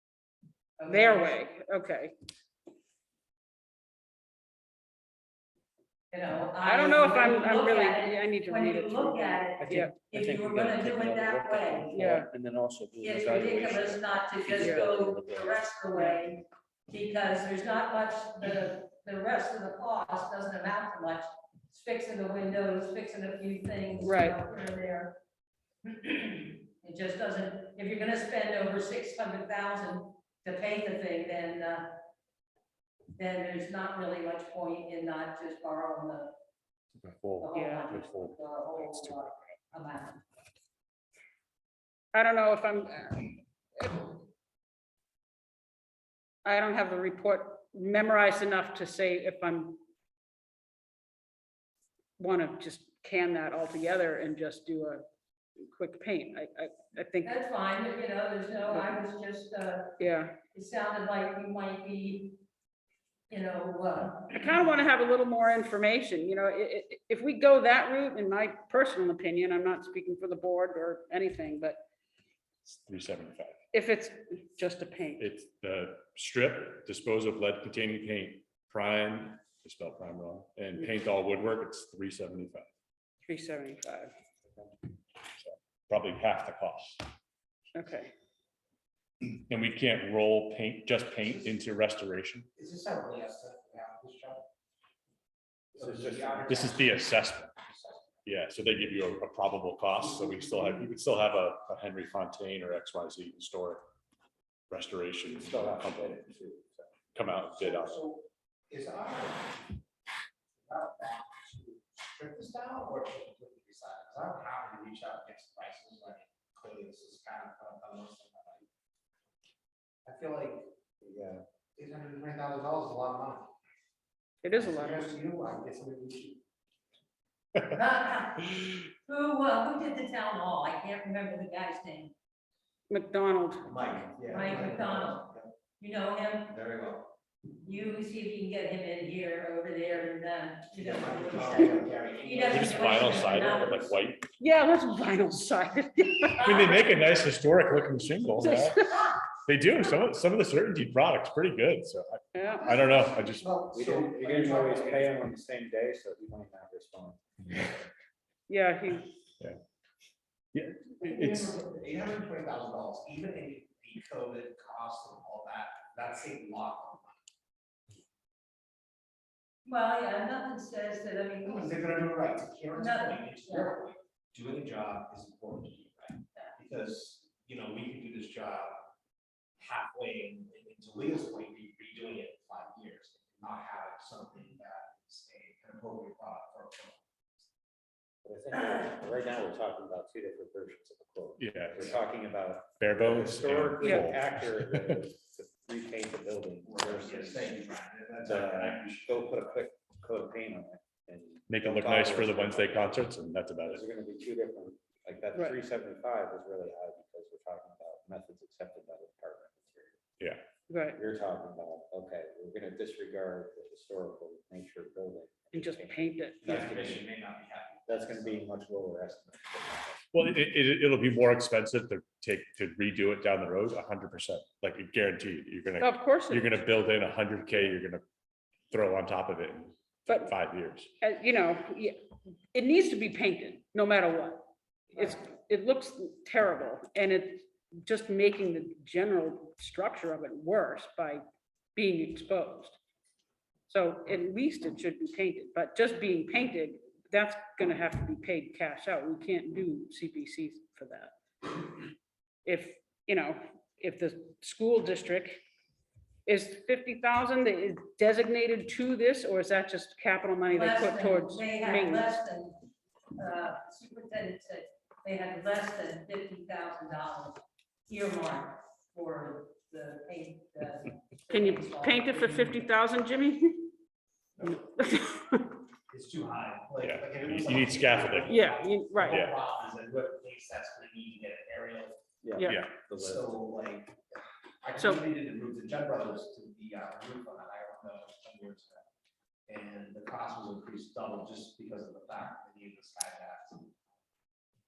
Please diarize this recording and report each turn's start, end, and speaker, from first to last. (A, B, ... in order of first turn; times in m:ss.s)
0:00.8-0:01.3 A
0:00.9-0:02.2 B
0:06.1-0:12.0 A
0:06.6-0:10.0 B
0:09.6-0:15.6 C
0:11.9-0:12.3 B
0:13.0-0:25.2 A
0:14.6-0:15.0 B
0:15.9-0:16.2 B
0:24.0-0:24.4 B
0:25.8-0:32.0 A
0:33.2-0:36.3 A
0:37.0-0:39.3 D
0:37.4-0:40.2 A
0:37.5-0:38.0 B
0:42.1-0:44.2 B
0:46.4-0:49.8 B
0:52.2-0:55.0 B
0:55.6-0:57.3 B
0:57.2-1:02.4 A
0:58.7-0:58.9 B
1:00.0-1:00.4 B
1:03.3-1:04.6 A
1:04.3-1:11.8 B
1:12.7-1:13.6 D
1:13.7-1:15.3 B
1:15.2-1:22.7 D
1:23.2-1:24.1 B
1:25.4-1:27.0 D
1:27.7-1:28.1 B
1:29.5-1:32.5 D
1:32.6-1:34.4 E
1:35.7-1:38.2 E
1:35.8-1:36.5 F
1:36.5-1:37.5 D
1:38.2-1:43.9 D
1:40.1-1:40.8 E
1:44.7-1:46.2 D
1:45.3-1:46.9 F
1:47.1-1:48.0 D
1:47.6-1:49.6 E
1:50.7-1:58.7 E
2:00.0-2:00.7 E
2:01.0-2:01.4 F
2:01.8-2:03.5 E
2:04.4-2:05.1 B
2:04.6-2:06.4 E
2:07.6-2:12.1 A
2:12.9-2:13.9 B
2:13.7-2:15.4 E
2:14.3-2:16.6 A
2:17.6-2:23.9 A
2:20.7-2:23.9 E
2:22.5-2:24.3 D
2:24.4-2:26.8 B
2:26.4-2:28.8 D
2:26.4-2:26.9 A
2:28.4-2:29.2 B
2:29.5-2:33.5 D
2:32.3-2:32.8 B
2:32.6-2:35.2 E
2:33.7-2:37.2 F
2:38.5-2:39.1 B
2:40.5-2:41.5 D
2:41.0-2:47.2 E
2:49.6-2:51.9 A
2:51.4-2:58.8 E
2:52.8-2:53.8 A
2:59.6-3:07.0 E
3:08.2-3:17.5 F
3:11.4-3:12.0 D
3:12.8-3:15.0 D
3:13.8-3:14.1 B
3:16.6-3:19.3 E
3:18.2-3:18.8 D
3:18.2-3:23.1 F
3:21.5-3:23.8 D
3:23.7-3:30.0 F
3:30.7-3:31.0 B
3:30.9-3:37.1 F
3:35.5-3:36.5 B
3:36.4-3:38.5 E
3:37.9-3:40.0 F
3:40.1-3:48.0 D
3:45.8-3:46.5 B
3:48.7-3:50.9 D
3:50.1-3:50.3 B
3:51.0-4:01.2 B
4:01.7-4:02.8 B
4:03.7-4:11.7 B
4:12.4-4:15.4 B
4:16.2-4:22.1 B
4:20.5-4:22.6 A
4:23.1-4:32.6 A
4:31.3-4:33.7 B
4:34.4-4:35.6 B
4:35.9-4:42.0 E
4:36.8-4:38.4 D
4:38.2-4:39.3 B
4:39.1-4:39.3 D
4:42.2-4:43.3 F
4:42.4-4:42.6 B
4:42.4-4:42.9 D
4:42.9-4:48.8 E
4:44.8-4:45.0 B
4:49.5-4:53.7 E